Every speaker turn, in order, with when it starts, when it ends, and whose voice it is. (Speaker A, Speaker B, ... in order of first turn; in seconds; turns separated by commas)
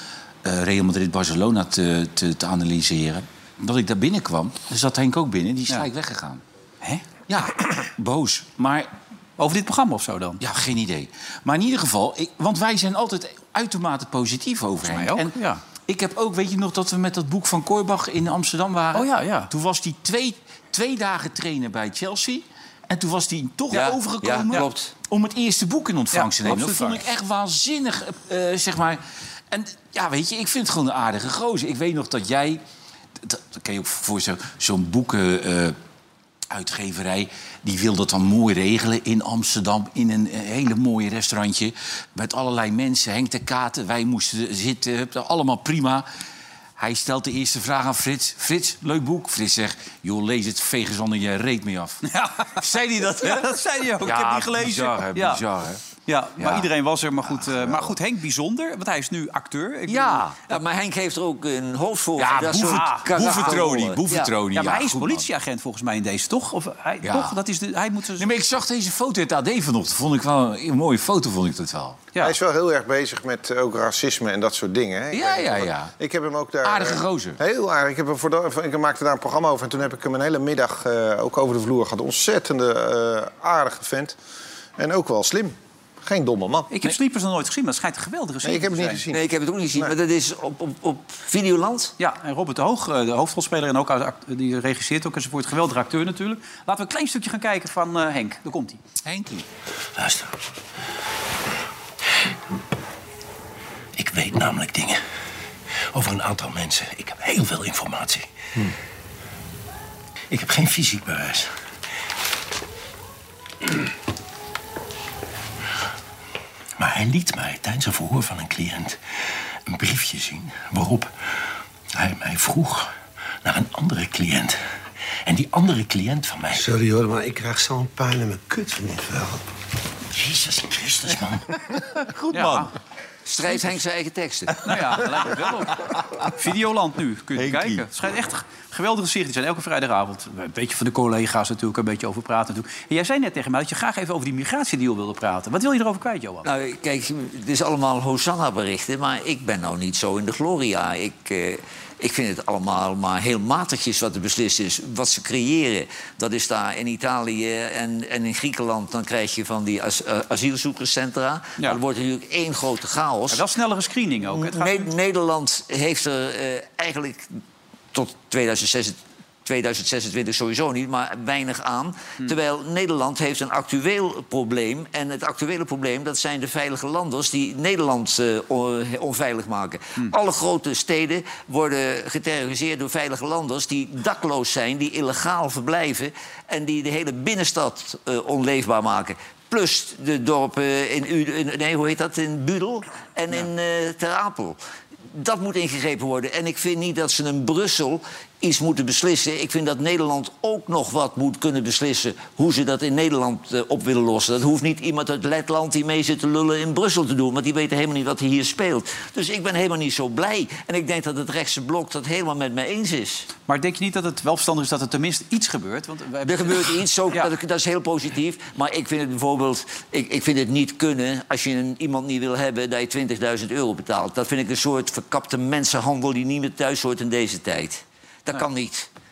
Speaker A: 0.4-6.4, Speaker B: 6.8-7.1, Speaker A: 7.3-8.9, Speaker B: 9.4-10.4, Speaker A: 10.4-32.6, Speaker B: 14.9-15.6, Speaker B: 18.9-19.5, Speaker C: 23.7-24.9, Speaker B: 26.1-27.0, Speaker A: 33.2-35.8, Speaker A: 36.5-46.0, Speaker A: 46.8-55.8, Speaker B: 52.1-52.6, Speaker B: 53.2-55.4, Speaker B: 56.0-60.3, Speaker A: 56.4-56.7, Speaker A: 57.2-58.0, Speaker A: 59.9-60.4, Speaker C: 60.2-64.3, Speaker A: 62.2-65.3, Speaker B: 62.6-63.6, Speaker B: 64.5-68.3, Speaker A: 67.0-67.4, Speaker A: 68.2-72.0, Speaker D: 72.2-84.2, Speaker A: 75.1-75.9, Speaker A: 76.6-77.4, Speaker D: 84.8-86.7, Speaker B: 86.7-89.0, Speaker D: 88.4-89.2, Speaker C: 89.1-91.9, Speaker B: 92.0-98.8, Speaker A: 99.0-99.5, Speaker E: 100.0-100.3, Speaker E: 104.0-105.0, Speaker E: 105.9-108.7, Speaker E: 110.3-111.5, Speaker E: 116.8-119.0, Speaker E: 119.7-121.1, Speaker E: 121.9-122.9, Speaker E: 123.4-124.6, Speaker E: 125.2-126.7, Speaker F: 126.6-129.4, Speaker E: 130.1-131.5, Speaker A: 132.1-132.7, Speaker B: 132.3-132.7, Speaker C: 133.3-134.6, Speaker B: 134.6-146.5, Speaker A: 137.4-137.9, Speaker C: 146.4-163.4, Speaker B: 163.3-164.9, Speaker C: 164.2-167.3, Speaker C: 167.9-194.6, Speaker C: 195.1-213.3, Speaker B: 213.5-217.3, Speaker C: 216.2-228.9